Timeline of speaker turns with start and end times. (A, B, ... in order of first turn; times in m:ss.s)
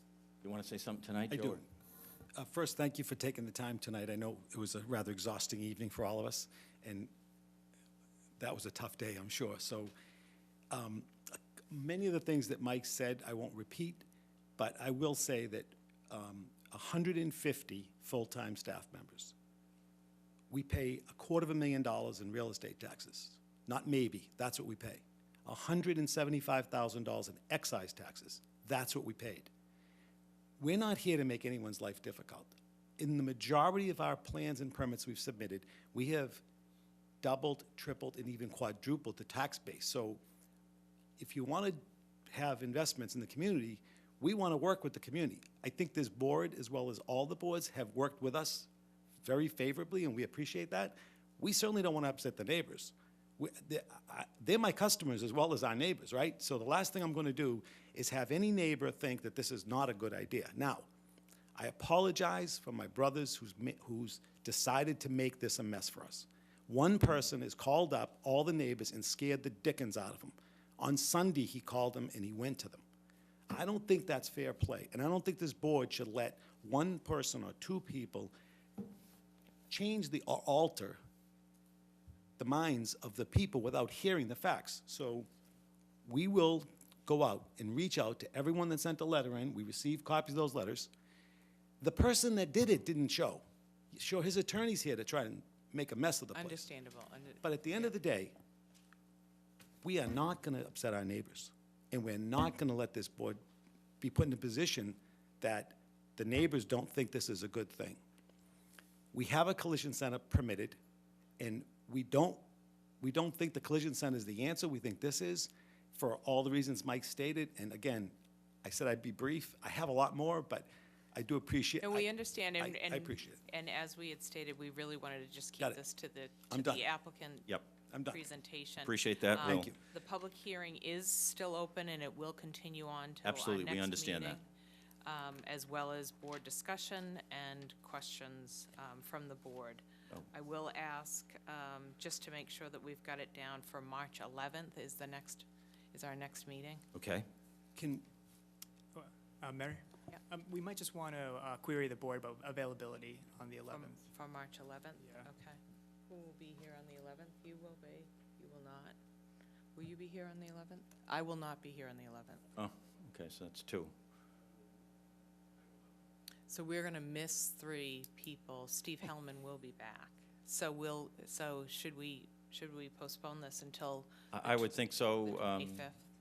0:00.4-0:01.6 A
0:01.3-0:01.6 B
0:02.3-0:07.1 B
0:08.4-0:09.9 B
0:10.7-0:14.0 B
0:14.6-0:19.3 B
0:20.5-0:29.5 B
0:30.6-0:36.4 B
0:37.2-0:40.2 B
0:41.2-0:48.7 B
0:49.2-1:00.8 B
1:01.5-1:12.8 B
1:13.5-1:18.3 B
1:19.7-1:21.0 B
1:22.4-1:25.3 B
1:26.1-1:30.9 B
1:31.8-1:36.7 B
1:36.3-1:37.9 C
1:37.4-1:38.3 B
1:39.8-1:43.4 B
1:44.0-1:48.0 B
1:49.1-1:50.8 B
1:51.4-1:52.4 B
1:53.0-2:03.4 B
2:01.8-2:07.5 C
2:06.5-2:06.9 B
2:07.9-2:08.2 B
2:08.1-2:14.4 C
2:08.8-2:09.7 A
2:09.4-2:09.8 B
2:13.2-2:14.4 A
2:15.0-2:26.8 C
2:26.9-2:27.2 A
2:27.8-2:28.0 B
2:28.9-2:34.0 D
2:33.7-2:35.6 C
2:35.0-2:35.3 D
2:36.1-2:39.0 C
2:39.8-2:42.4 C
2:42.6-2:43.9 A
2:46.5-2:54.7 C
2:54.3-2:55.9 A
2:55.2-2:56.0 C